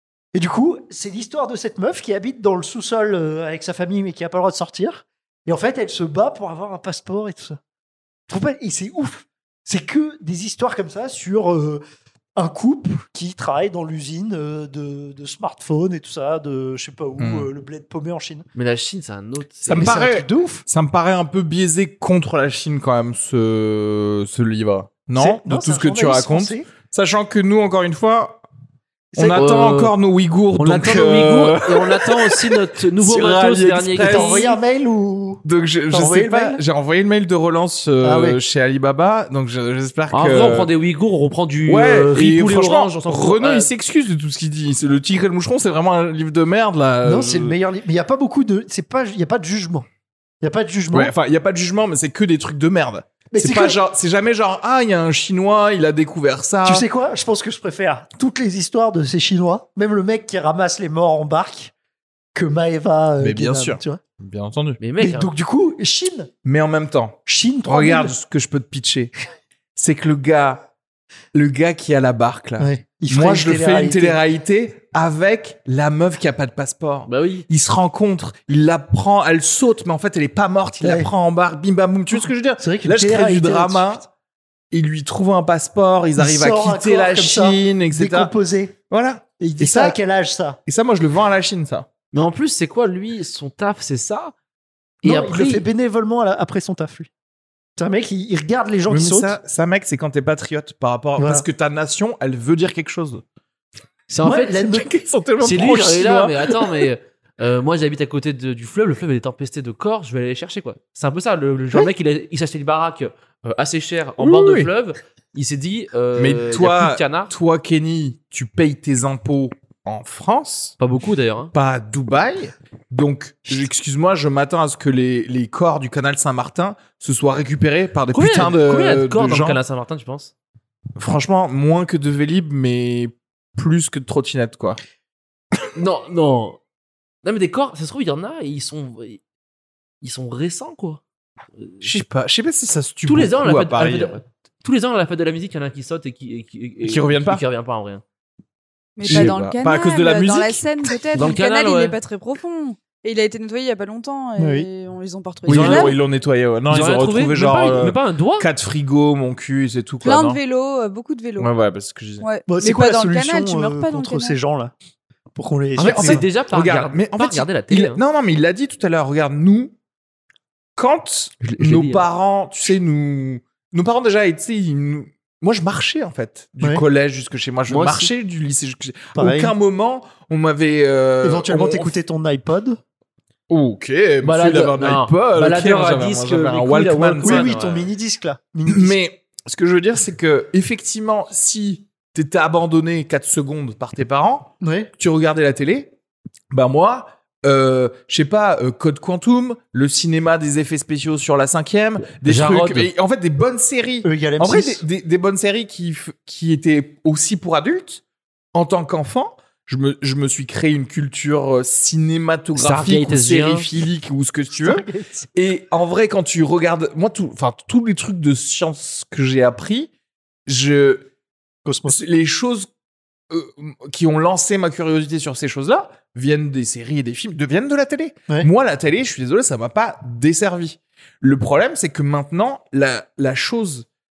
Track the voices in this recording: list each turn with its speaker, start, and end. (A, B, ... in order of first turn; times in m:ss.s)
0:00.3-0:07.6 A
0:08.3-0:11.8 A
0:12.4-0:18.5 A
0:17.2-0:17.5 B
0:18.6-0:20.0 C
0:19.6-0:28.4 B
0:19.8-0:20.6 A
0:25.2-0:26.7 A
0:29.1-0:29.4 A
0:29.2-0:34.6 B
0:29.3-0:29.9 C
0:30.6-0:34.5 C
0:34.0-0:36.6 A
0:35.4-0:40.7 B
0:38.0-0:38.4 A
0:40.1-0:43.7 C
0:41.7-0:47.6 B
0:47.0-0:49.9 A
0:50.4-0:51.1 A
0:50.9-0:56.9 B
0:53.3-0:53.8 A
0:56.6-1:01.7 A
1:02.3-1:04.0 A
1:03.2-1:04.8 B
1:04.8-1:05.3 C
1:05.0-1:06.3 A
1:06.4-1:09.1 B
1:07.3-1:08.2 A
1:09.8-1:10.6 B
1:11.3-1:24.1 B
1:12.6-1:14.2 A
1:17.1-1:17.5 C
1:20.8-1:21.1 A
1:22.1-1:24.0 A
1:24.7-1:28.3 B
1:26.2-1:28.8 A
1:28.9-1:30.0 B
1:29.4-1:30.6 A
1:30.7-1:31.9 B
1:32.1-1:34.3 C
1:35.0-1:35.6 C
1:35.0-1:37.1 A
1:37.8-1:39.4 A
1:38.9-1:43.2 B
1:41.2-1:41.4 A
1:44.1-1:44.7 C
1:44.2-1:44.9 A
1:44.7-1:46.8 B
1:45.4-1:57.3 C
1:54.2-1:54.7 B
1:56.2-2:00.8 B
2:00.8-2:01.5 C
2:01.5-2:09.6 B
2:08.1-2:10.3 C
2:11.0-2:14.8 B
2:15.7-2:16.6 C
2:17.2-2:19.2 C
2:20.0-2:21.0 C
2:21.6-2:21.9 C
2:21.8-2:24.2 B
2:23.1-2:28.0 C
2:26.8-2:27.4 B
2:29.0-2:36.0 D
2:29.0-2:30.6 B
2:31.2-2:32.0 C
2:34.4-2:34.7 A
2:35.4-2:40.4 B
2:35.5-2:35.8 C
2:36.7-2:38.5 C
2:40.0-2:41.6 D
2:41.4-2:42.3 B
2:42.2-2:44.4 D
2:42.5-2:44.7 A
2:45.4-2:46.2 A
2:45.8-2:48.0 C
2:45.8-2:49.7 B
2:50.8-3:01.9 B
2:51.4-2:52.0 C
2:57.7-2:58.1 C
2:59.2-2:59.5 A
3:01.2-3:02.8 A
3:03.5-3:07.5 B
3:04.2-3:07.9 C
3:07.2-3:09.0 A
3:08.7-3:15.9 B
3:14.6-3:14.9 A
3:16.5-3:28.0 B
3:22.2-3:22.9 C
3:24.0-3:24.8 A
3:28.5-3:39.9 B
3:32.6-3:33.8 C
3:34.5-3:35.3 A
3:40.5-3:41.1 B
3:41.6-3:42.0 A
3:41.9-3:42.7 B
3:43.3-3:53.9 B